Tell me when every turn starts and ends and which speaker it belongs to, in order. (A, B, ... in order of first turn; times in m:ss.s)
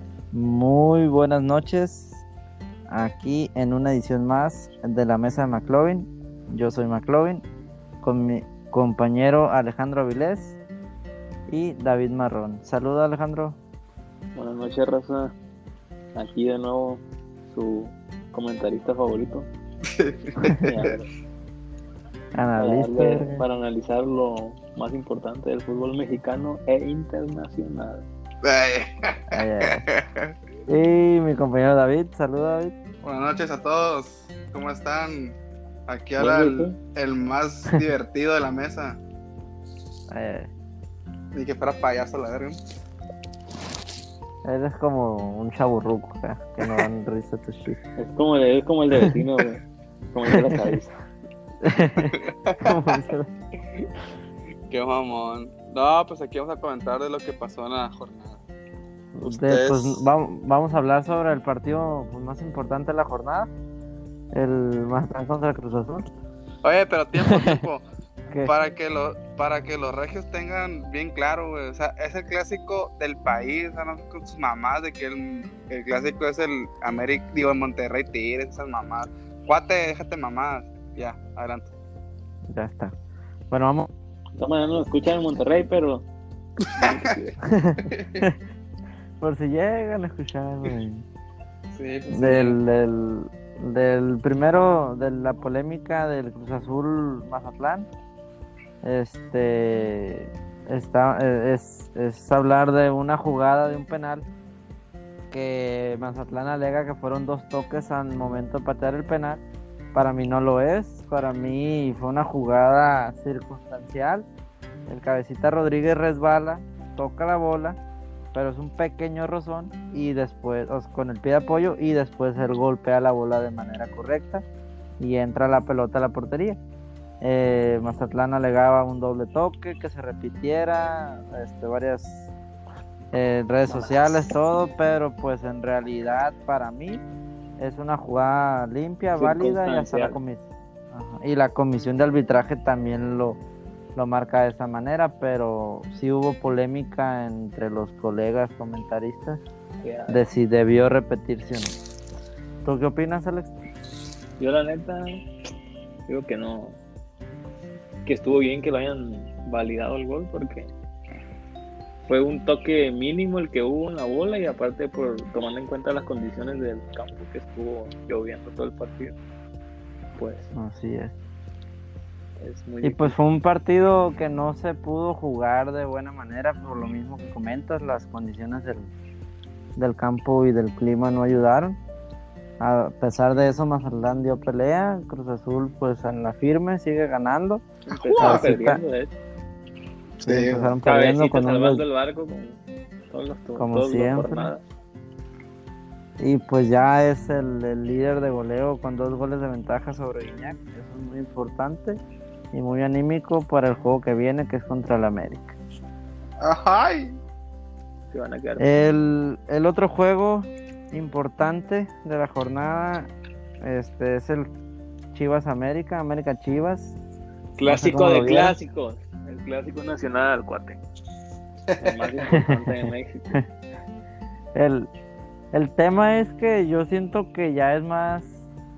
0:00.3-0:02.2 A
0:02.9-0:07.4 A
0:08.0-0:10.6 A
0:11.5-0:13.6 A
0:14.4-0:15.3 B
0:16.2-0:19.5 B
0:19.8-0:20.9 C
0:20.6-0:21.1 B
0:22.4-0:23.4 A
0:22.6-0:28.0 B
0:28.4-0:30.3 C
0:29.3-0:29.9 A
0:30.7-0:32.7 A
0:33.0-0:35.4 C
0:35.9-0:39.0 C
0:36.2-0:36.8 B
0:40.1-0:40.5 A
0:41.3-0:42.6 C
0:44.4-0:47.8 A
0:48.0-0:49.6 B
0:50.1-0:50.9 B
0:50.3-0:50.6 A
0:51.6-0:53.3 A
0:52.1-0:53.0 C
0:54.7-0:58.4 C
0:59.1-1:03.5 A
0:59.2-1:00.0 C
1:04.3-1:06.1 A
1:06.6-1:07.8 C
1:07.2-1:07.6 A
1:08.4-1:21.7 C
1:22.5-1:22.9 A
1:23.5-1:23.9 A
1:24.4-1:26.0 B
1:26.7-1:27.4 B
1:26.8-1:27.2 C
1:27.4-1:28.4 A
1:27.8-1:28.3 C
1:29.2-1:31.0 A
1:31.8-1:32.6 C
1:32.1-1:37.9 A
1:38.8-1:44.3 A
1:45.3-1:49.4 A
1:49.9-1:54.3 A
1:54.9-1:57.8 A
1:58.3-2:04.4 A
2:05.0-2:06.6 A
2:07.2-2:12.3 A
2:13.1-2:17.0 A
2:17.6-2:23.4 A
2:19.2-2:20.2 B
2:24.0-2:29.4 A
2:29.8-2:30.2 B
2:30.1-2:31.8 A
2:32.6-2:33.5 A
2:34.4-2:35.2 B
2:36.1-2:36.8 B
2:38.1-2:40.7 B
2:42.1-2:49.2 B
2:50.2-2:50.5 B
2:50.6-2:51.1 A
2:52.4-2:53.2 B
2:52.8-2:58.9 A
2:59.8-3:01.8 A
3:02.6-3:07.6 A
3:07.9-3:08.5 C
3:07.9-3:09.1 B
3:08.2-3:08.8 A
3:10.2-3:10.8 C
3:10.2-3:11.8 A
3:10.9-3:12.6 B
3:13.1-3:14.6 B
3:13.6-3:14.5 A
3:16.2-3:22.0 A
3:22.5-3:25.6 A
3:26.4-3:27.2 C
3:28.1-3:28.9 B
3:28.6-3:33.1 A
3:33.6-3:34.5 A
3:35.1-3:37.0 A
3:37.6-3:40.8 B
3:37.6-3:38.6 A
3:41.7-3:42.1 C
3:41.8-3:43.4 B
3:42.3-3:43.4 A
3:44.6-3:44.9 A
3:45.5-3:48.4 A